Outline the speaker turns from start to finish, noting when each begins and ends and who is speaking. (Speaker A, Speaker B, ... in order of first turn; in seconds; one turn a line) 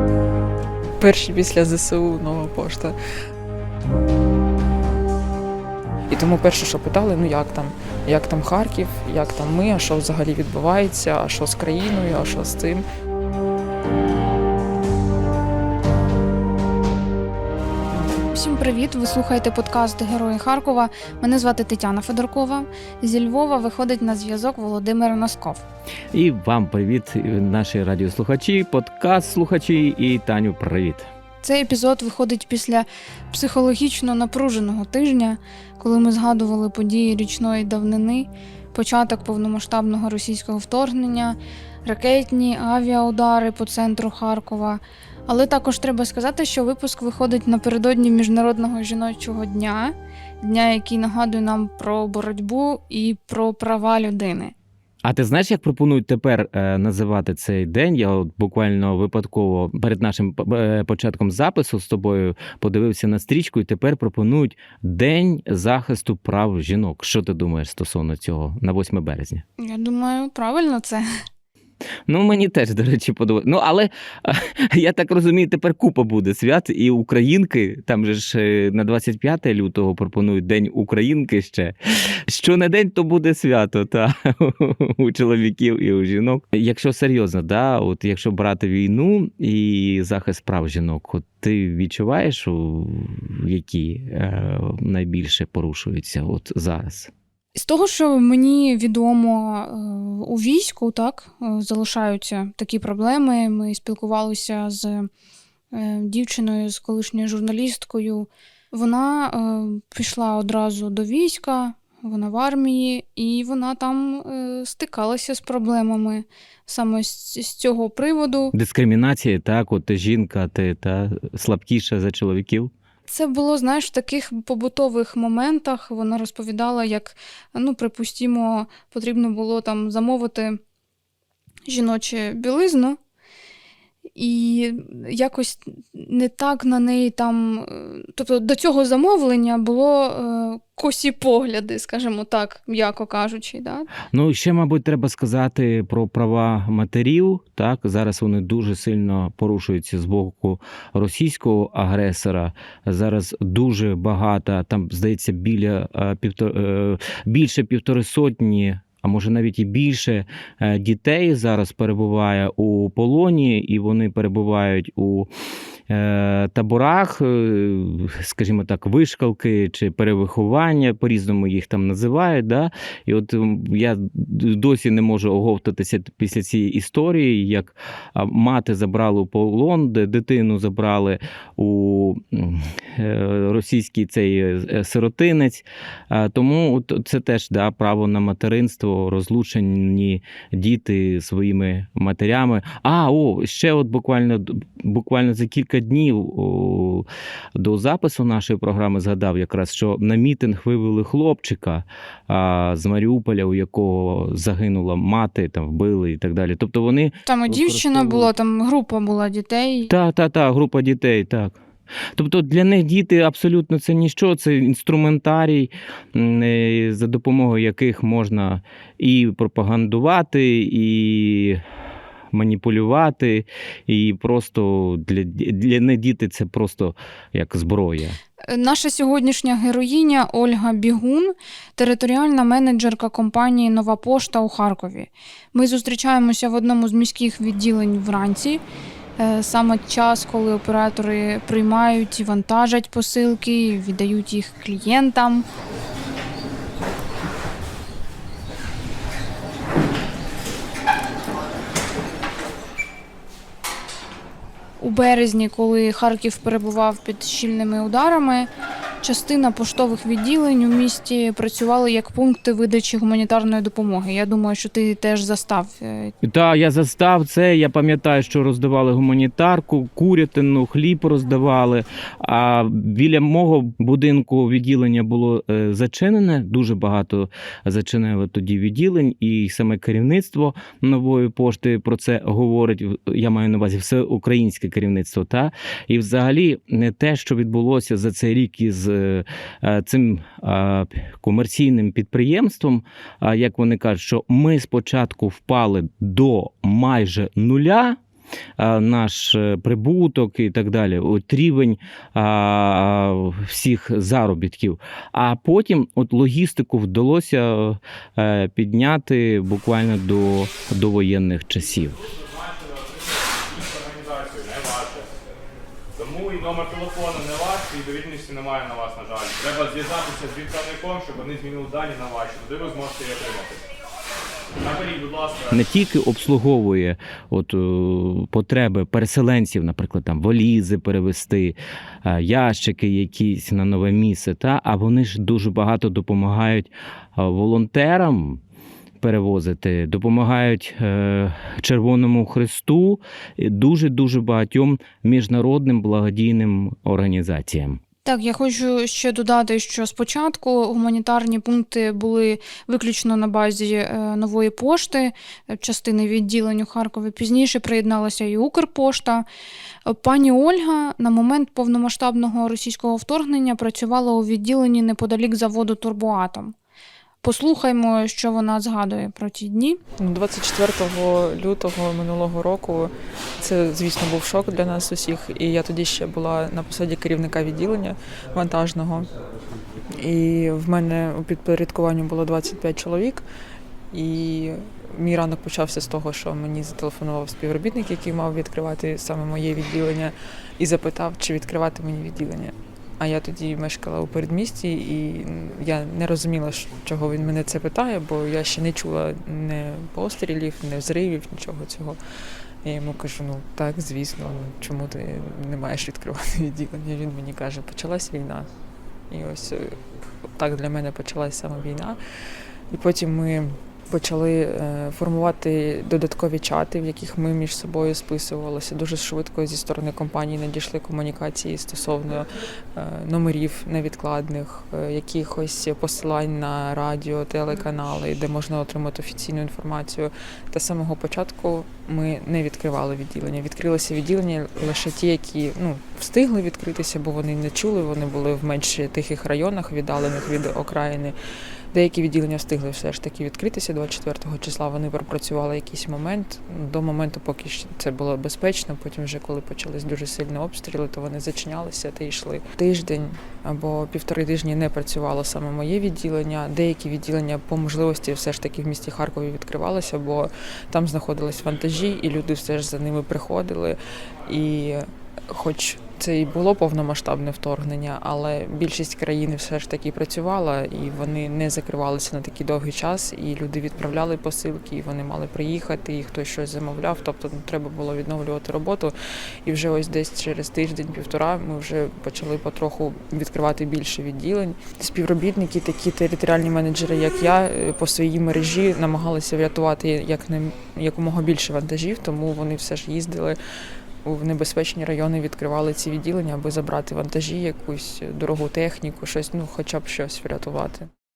Speaker A: 1.0-3.0
Speaker A: 6.1-12.8
Speaker B: 18.3-25.6
Speaker C: 26.1-31.1
Speaker B: 31.4-54.5
Speaker C: 55.0-69.4
Speaker B: 69.6-71.1
Speaker C: 72.1-97.1
Speaker B: 97.5-105.1
Speaker B: 105.7-118.5
Speaker C: 118.5-122.7
Speaker B: 123.1-130.6
Speaker B: 131.7-133.0
Speaker B: 134.2-143.9
Speaker C: 144.1-165.3
Speaker C: 165.9-208.3
Speaker B: 207.3-209.9
Speaker C: 209.9-211.6
Speaker C: 212.2-221.6
Speaker C: 222.3-228.2
Speaker B: 228.5-238.6
Speaker B: 239.2-245.5
Speaker B: 254.8-258.5
Speaker B: 259.0-266.1
Speaker C: 266.2-298.0
Speaker C: 298.6-312.0
Speaker D: 312.0-315.1
Speaker D: 316.0-323.6
Speaker D: 324.6-325.6
Speaker C: 325.5-338.4
Speaker C: 339.0-347.8
Speaker B: 348.1-359.3
Speaker B: 359.9-366.5
Speaker B: 367.2-369.8
Speaker A: 370.0-379.1
Speaker A: 379.9-383.2
Speaker A: 383.9-402.0
Speaker A: 402.6-408.5
Speaker A: 409.1-409.8
Speaker A: 410.4-412.0
Speaker A: 412.7-441.1
Speaker A: 441.7-478.9
Speaker A: 479.4-493.4
Speaker A: 494.1-500.9